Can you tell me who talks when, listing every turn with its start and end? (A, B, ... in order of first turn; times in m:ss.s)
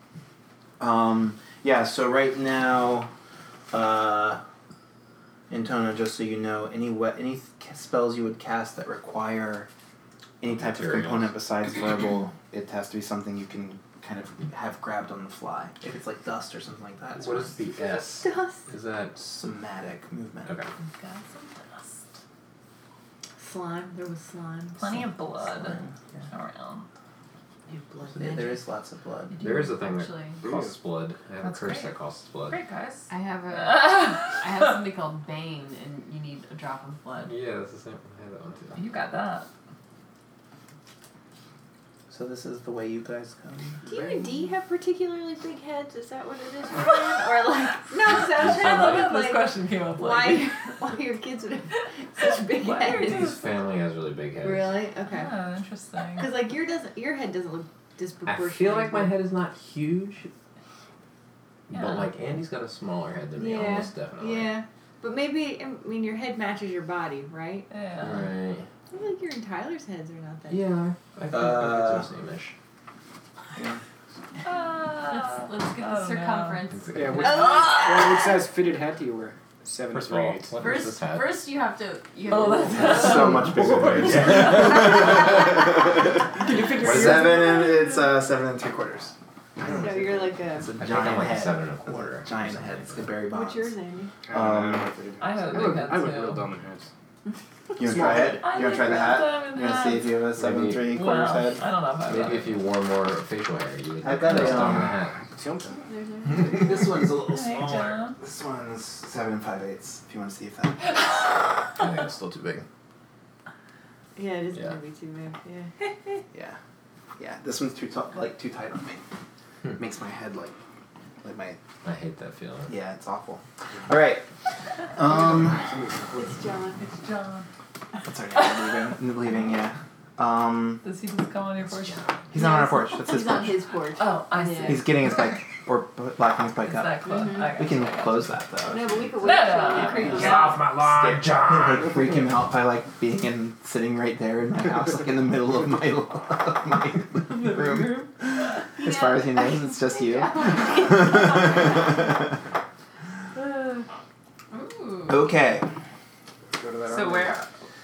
0:00.8-0:03.1 A
0:03.7-0:04.4 A
0:05.5-0:09.7 A
0:10.4-0:18.2 A
0:10.4-0:11.4 B
0:17.1-0:19.4 B
0:18.2-0:18.6 C
0:19.2-0:20.6 A
0:21.0-0:22.2 D
0:23.4-0:24.9 C
0:24.8-0:26.9 D
0:25.5-0:26.3 A
0:27.7-0:28.6 C
0:28.2-0:29.4 A
0:29.4-0:30.4 E
0:29.4-0:32.6 B
0:30.4-0:30.7 F
0:31.4-0:31.9 D
0:32.5-0:34.7 D
0:33.1-0:37.3 E
0:37.2-0:38.8 B
0:38.8-0:39.5 D
0:42.1-0:43.8 A
0:43.8-0:53.4 C
0:48.0-0:49.1 B
0:48.4-0:50.5 D
0:52.6-0:53.3 D
0:52.9-0:54.8 B
0:54.4-0:55.3 C
0:55.1-0:56.3 D
0:56.2-0:59.2 C
0:58.2-1:00.3 B
1:01.7-1:04.6 B
1:01.7-1:02.1 D
1:03.4-1:07.7 C
1:07.7-1:08.3 D
1:08.0-1:08.7 B
1:08.9-1:10.6 C
1:10.5-1:12.5 B
1:11.3-1:12.1 A
1:13.6-1:13.8 A
1:14.4-1:16.6 D
1:15.0-1:17.4 E
1:16.7-1:17.4 B
1:16.9-1:20.7 F
1:17.2-1:18.1 C
1:19.9-1:21.4 B
1:20.6-1:23.4 E
1:22.2-1:23.4 D
1:22.8-1:26.2 A
1:22.9-1:25.6 B
1:24.2-1:24.9 D
1:26.3-1:27.4 F
1:26.7-1:29.1 A
1:26.8-1:27.2 B
1:27.4-1:28.0 C
1:29.6-1:30.3 F
1:29.7-1:30.7 C
1:30.5-1:33.8 A
1:30.8-1:33.2 B
1:33.3-1:34.1 C
1:34.2-1:36.9 F
1:34.3-1:34.9 A
1:35.2-1:36.5 D
1:37.8-1:41.6 A
1:37.8-1:38.5 F
1:38.4-1:40.2 D
1:40.3-1:41.0 B
1:40.9-1:42.7 D
1:42.0-1:45.2 B
1:44.0-1:44.9 A
1:45.2-1:45.8 F
1:45.9-1:46.8 E
1:46.2-1:51.3 A
1:47.2-1:48.2 D
1:51.8-1:52.6 B
1:54.2-1:55.7 C
1:56.3-1:56.6 A
1:57.2-1:59.0 A
1:59.7-2:00.6 A
2:01.2-2:01.6 A
2:01.8-2:02.7 B
2:02.7-2:04.2 A
2:04.9-2:05.6 A
2:05.0-2:06.3 F
2:06.1-2:06.9 C
2:06.8-2:07.5 D
2:08.0-2:10.8 A
2:10.8-2:12.0 D
2:11.6-2:12.1 B
2:12.3-2:13.6 A
2:12.3-2:14.8 C
2:14.0-2:15.3 D
2:14.6-2:19.0 A
2:16.6-2:18.4 D
2:17.1-2:17.4 C
2:18.7-2:20.6 C
2:19.2-2:20.6 D
2:20.0-2:22.2 B
2:20.7-2:32.2 A
2:27.3-2:28.4 D
2:28.8-2:31.8 C
2:33.4-2:33.8 D
2:34.5-2:35.3 E
2:35.1-2:35.7 A
2:36.5-2:37.4 F
2:36.8-2:37.5 D